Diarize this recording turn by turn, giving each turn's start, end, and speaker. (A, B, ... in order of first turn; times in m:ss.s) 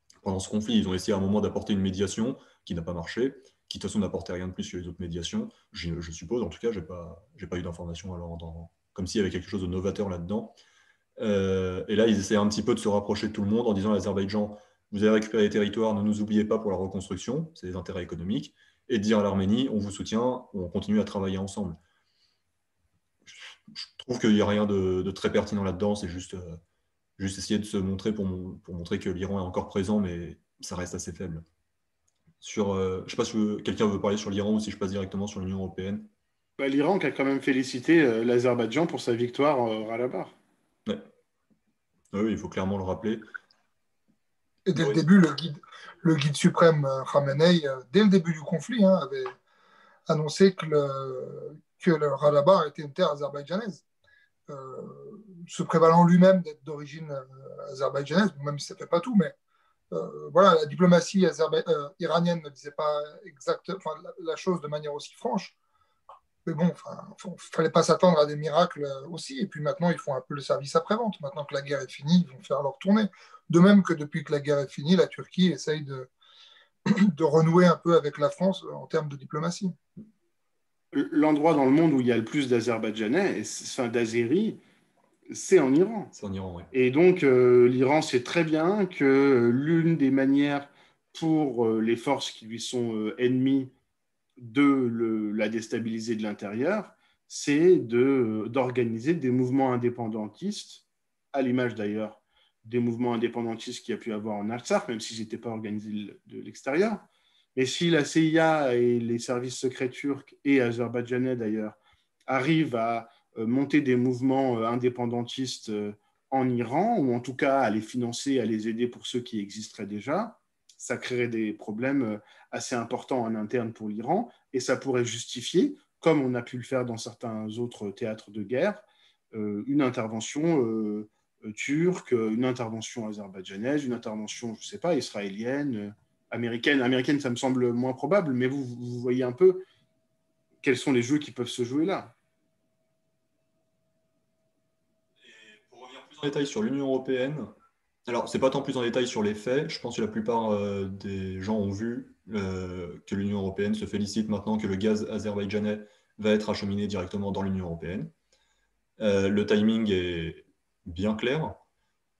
0:00.2-0:10.5 A
0:11.2-0:21.8 A
0:23.2-0:26.6 A
0:27.2-0:31.4 A
0:32.4-0:36.1 A
0:36.6-0:40.4 B
0:42.1-0:43.2 A
0:44.6-0:49.3 C
0:44.8-0:45.0 A
0:50.1-0:53.8 C
0:54.5-0:59.3 C
0:59.9-1:05.6 C
1:06.4-1:16.1 C
1:16.8-1:19.7 C
1:20.9-1:24.6 B
1:25.3-1:26.1 B
1:26.1-1:26.7 A
1:26.7-1:33.7 B
1:34.4-2:19.6 B
2:20.6-2:22.1 B
2:25.2-2:27.5 A
2:28.1-2:38.1 A
2:39.0-2:41.6 A